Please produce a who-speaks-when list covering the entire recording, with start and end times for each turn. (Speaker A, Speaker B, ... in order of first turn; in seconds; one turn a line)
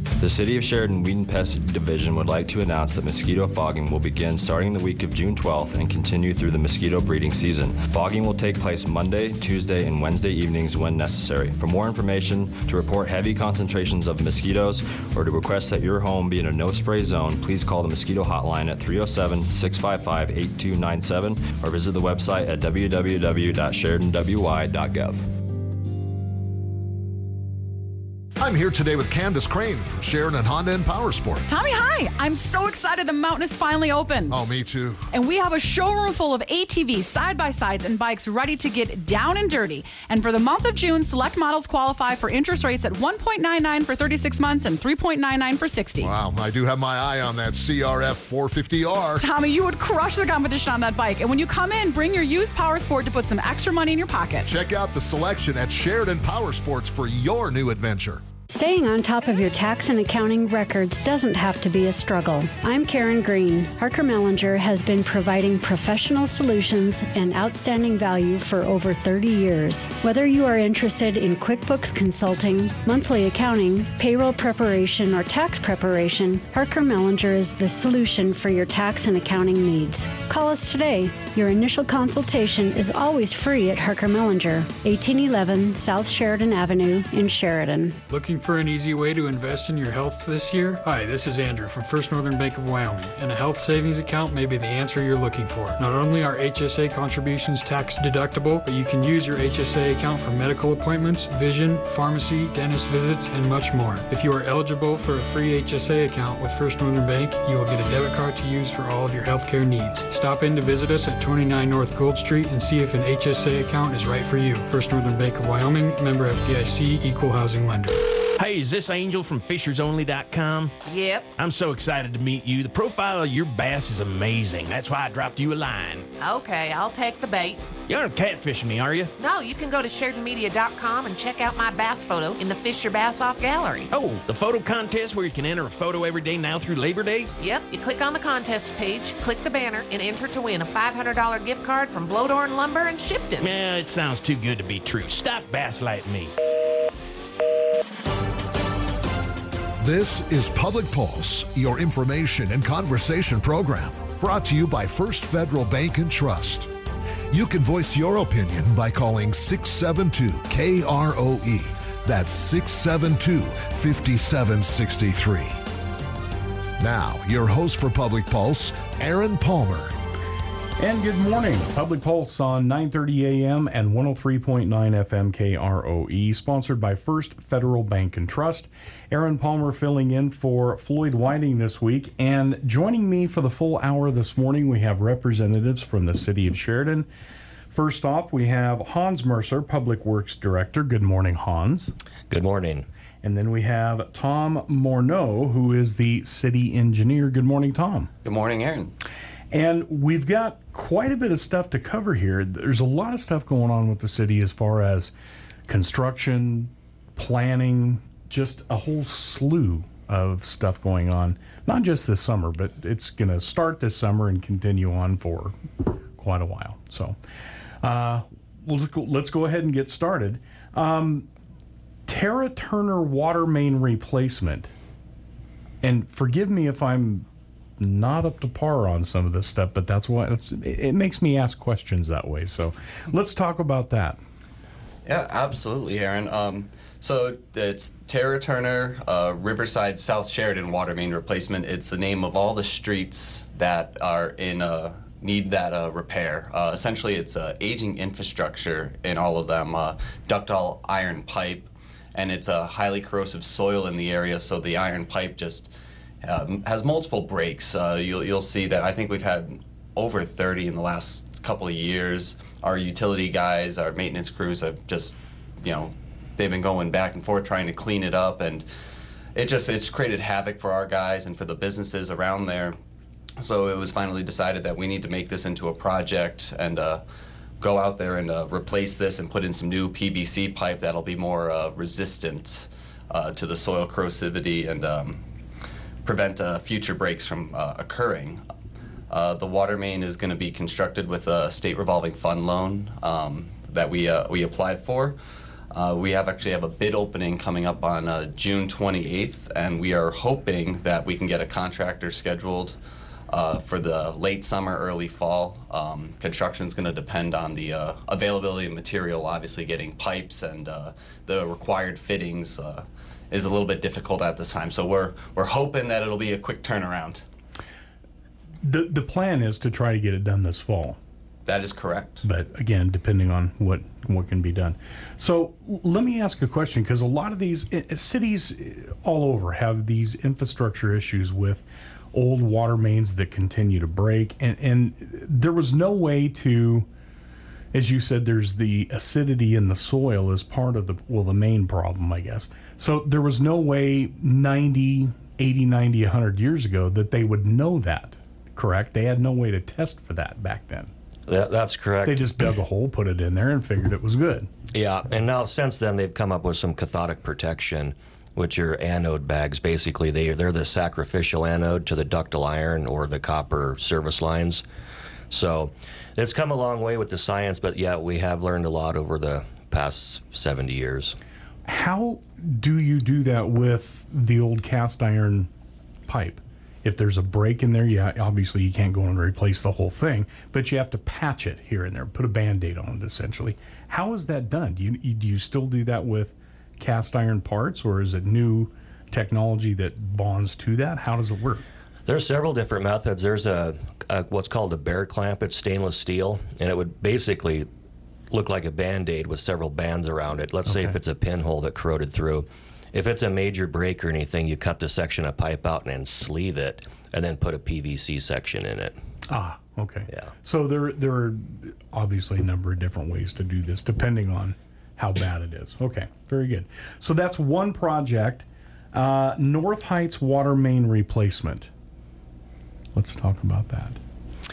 Speaker A: 0.2-25.3
Speaker B: 28.4-31.5
Speaker C: 31.5-34.3
Speaker B: 34.3-35.1
Speaker C: 35.1-46.1
Speaker B: 46.0-49.2
Speaker C: 49.2-54.5
Speaker B: 54.4-58.2
Speaker D: 58.5-88.0
Speaker E: 88.1-117.9
Speaker F: 118.3-120.8
Speaker G: 120.9-121.3
Speaker F: 121.4-126.1
Speaker G: 126.2-127.6
Speaker F: 127.9-129.1
Speaker G: 129.2-133.9
Speaker F: 133.9-137.3
Speaker G: 137.4-143.7
Speaker F: 143.4-146.3
Speaker B: 149.8-156.7
Speaker B: 157.3-165.6
Speaker B: 166.8-169.9
Speaker H: 170.8-187.1
Speaker H: 187.7-191.9
Speaker I: 192.3-192.9
Speaker H: 193.2-198.1
Speaker J: 198.2-198.9
Speaker H: 199.5-205.1
Speaker H: 205.7-217.2
Speaker H: 217.8-221.3
Speaker H: 222.1-224.7
Speaker H: 225.8-227.3
Speaker H: 227.8-234.2
Speaker J: 235.1-255.7
Speaker J: 256.2-268.6
Speaker J: 269.4-272.8
Speaker J: 273.4-277.0
Speaker J: 277.6-285.2
Speaker J: 286.0-288.4
Speaker J: 289.1-295.2
Speaker J: 295.7-302.8
Speaker J: 303.3-317.2
Speaker H: 318.6-321.0
Speaker J: 321.4-322.2
Speaker H: 322.2-336.9
Speaker H: 337.7-350.9
Speaker I: 351.3-352.2
Speaker H: 352.0-354.5
Speaker I: 354.7-364.6
Speaker I: 365.3-371.2
Speaker H: 371.7-375.5
Speaker H: 376.1-391.6
Speaker I: 392.1-397.7
Speaker I: 398.3-408.9
Speaker H: 400.7-400.9
Speaker H: 409.3-421.7
Speaker H: 422.9-424.0